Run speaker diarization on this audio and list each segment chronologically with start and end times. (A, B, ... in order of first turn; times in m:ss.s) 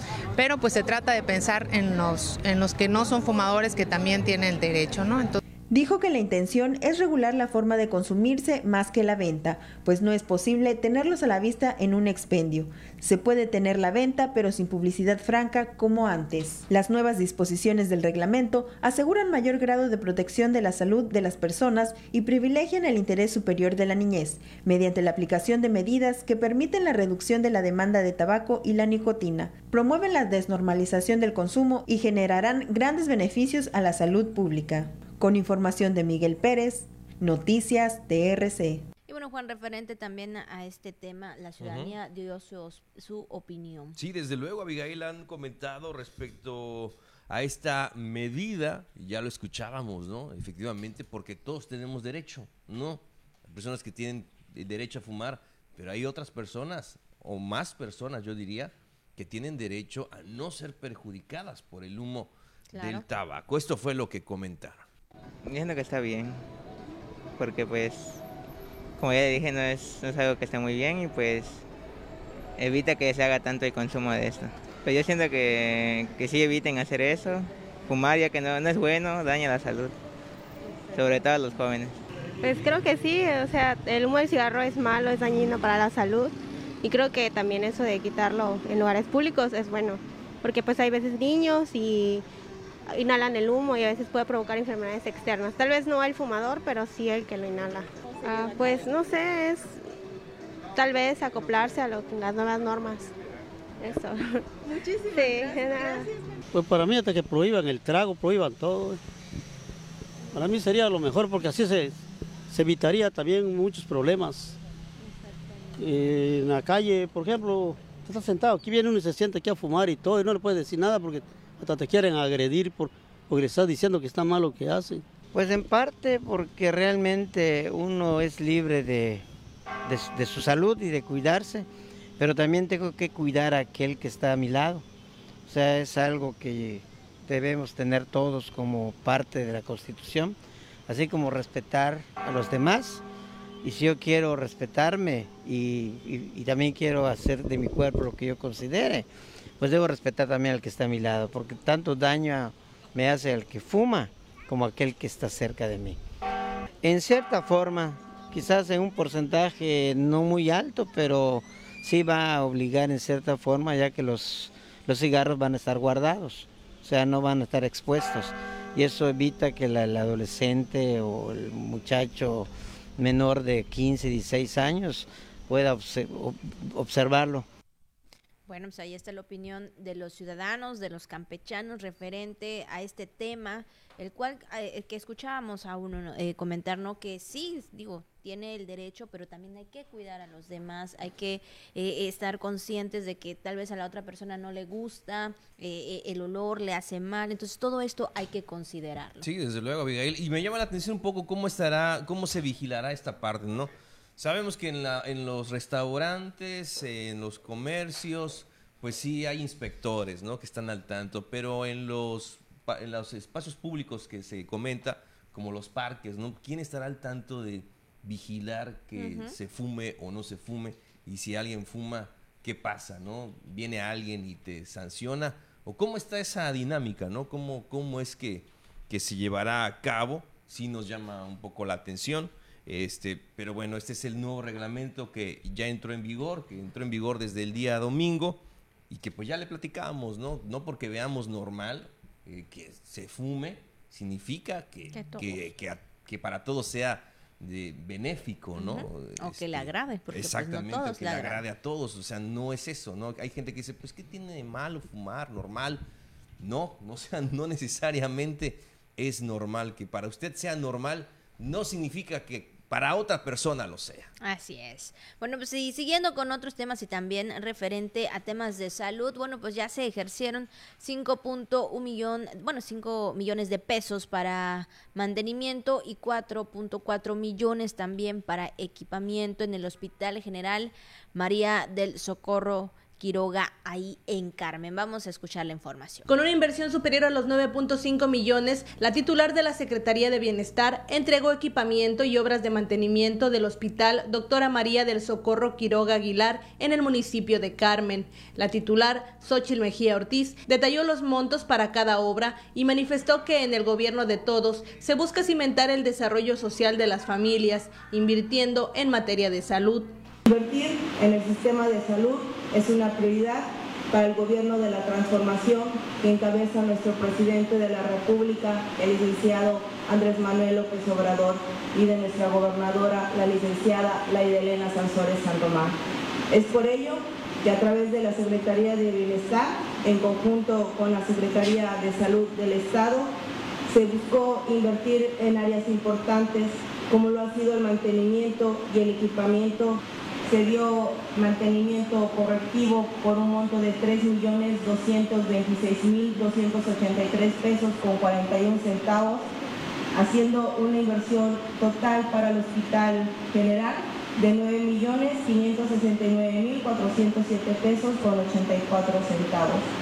0:00.4-0:05.4 A
0:05.7-0:38.8 B
0:39.1-0:44.0 C
0:41.6-0:41.9 D
0:44.0-1:04.8 D
1:02.7-1:03.0 C
1:05.4-1:06.4 E
1:07.4-1:08.2 E
1:09.0-1:11.6 E
1:12.6-1:19.9 E
1:20.9-1:22.0 E
1:22.4-1:32.2 F
1:32.9-1:39.8 F
1:40.8-1:43.1 F
1:43.8-1:46.1 F
1:46.5-1:49.0 G
1:50.3-1:54.6 G
1:55.8-2:05.0 G
2:05.3-2:09.3 H
2:09.9-2:14.8 H
2:15.5-2:23.0 H
2:23.6-2:29.1 H
2:29.6-2:36.0 H
2:36.8-2:57.5 H
2:58.5-3:19.3 C
3:19.2-4:15.8 D
3:39.0-3:39.4 C
4:04.9-4:05.4 C
4:08.6-4:11.4 C
4:16.4-4:24.1 D
4:24.2-4:46.1 C
4:46.1-5:10.0 I
5:10.2-5:25.8 J
5:26.3-5:33.1 J
5:33.7-5:49.3 J
5:49.9-5:59.7 J